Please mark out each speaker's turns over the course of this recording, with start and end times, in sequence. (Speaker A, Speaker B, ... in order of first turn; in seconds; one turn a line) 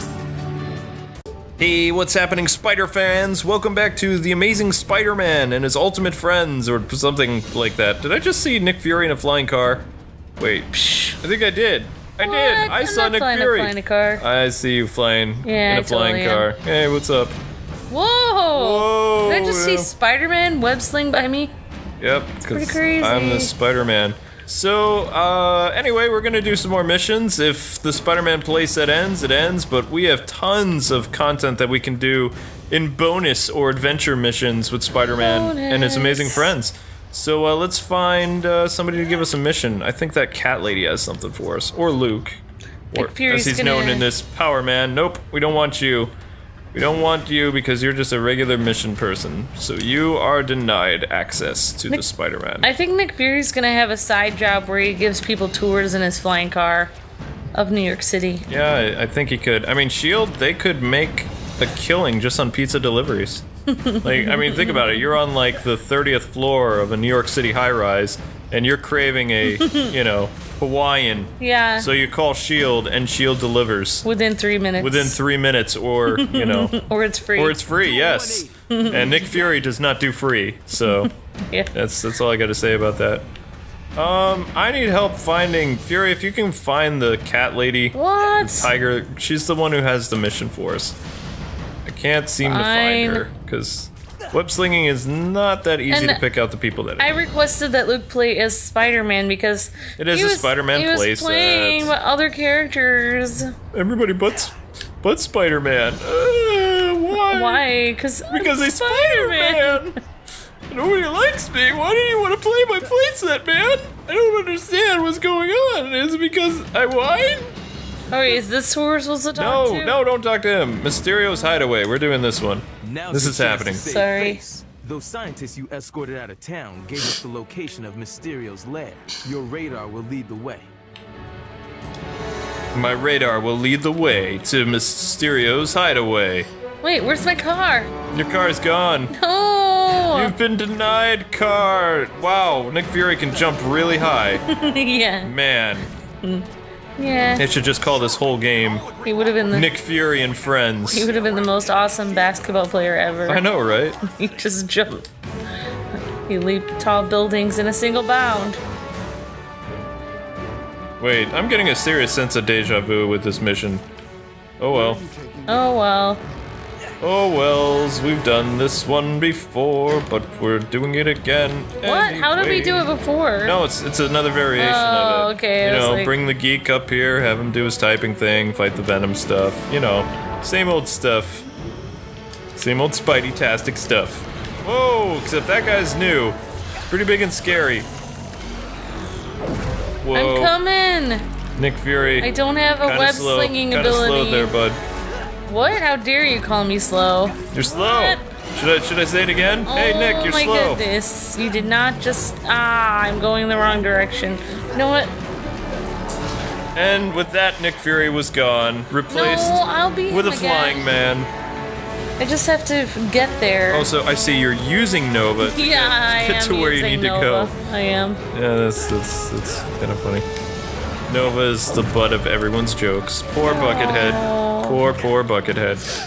Speaker A: 1.6-17.4
Speaker B: 10.7-11.2
Speaker B: 12.2-14.2
Speaker B: 15.4-16.5
Speaker B: 17.9-21.5
Speaker A: 18.6-19.9
Speaker A: 22.0-42.4
Speaker B: 22.5-23.5
Speaker B: 35.2-36.5
Speaker B: 42.9-44.1
Speaker A: 42.9-46.1
Speaker A: 46.7-52.7
Speaker B: 52.6-56.9
Speaker B: 57.5-58.5
Speaker A: 58.5-63.4
Speaker B: 63.7-65.1
Speaker A: 64.0-74.1
Speaker B: 69.5-69.9
Speaker B: 71.4-71.9
Speaker B: 74.0-75.2
Speaker A: 74.8-76.7
Speaker B: 76.1-77.6
Speaker A: 77.3-81.1
Speaker C: 77.8-79.3
Speaker B: 78.7-79.2
Speaker B: 80.8-81.7
Speaker A: 81.7-83.3
Speaker A: 84.0-91.0
Speaker B: 87.9-88.7
Speaker A: 91.9-97.2
Speaker B: 92.4-93.3
Speaker B: 95.9-96.2
Speaker B: 97.0-103.5
Speaker A: 100.0-101.9
Speaker A: 103.7-107.6
Speaker B: 107.1-109.9
Speaker A: 108.3-110.0
Speaker A: 110.7-117.5
Speaker B: 118.1-120.0
Speaker A: 119.3-123.9
Speaker C: 122.8-130.7
Speaker B: 123.8-124.4
Speaker A: 132.7-136.5
Speaker B: 136.8-137.9
Speaker A: 138.1-139.1
Speaker B: 139.1-140.3
Speaker A: 140.0-144.4
Speaker B: 144.4-145.3
Speaker A: 145.2-145.9
Speaker B: 146.2-147.4
Speaker A: 147.4-148.9
Speaker B: 149.0-149.7
Speaker A: 149.5-151.1
Speaker B: 150.9-153.4
Speaker A: 153.2-154.0
Speaker B: 154.1-155.1
Speaker B: 156.2-158.6
Speaker A: 161.0-163.8
Speaker A: 164.6-165.1
Speaker B: 165.5-166.2
Speaker A: 167.0-172.9
Speaker B: 171.8-173.6
Speaker A: 173.4-181.4
Speaker B: 174.6-176.2
Speaker A: 182.6-187.9
Speaker A: 190.0-190.5
Speaker B: 190.1-191.2
Speaker A: 191.6-194.8
Speaker B: 192.2-194.5
Speaker B: 195.5-198.2
Speaker A: 197.5-200.8
Speaker B: 199.7-205.1
Speaker A: 206.8-211.3
Speaker B: 209.1-210.9
Speaker B: 212.2-213.9
Speaker A: 213.7-217.5
Speaker B: 215.4-218.2
Speaker A: 218.3-220.3
Speaker A: 221.1-225.9
Speaker B: 223.4-224.8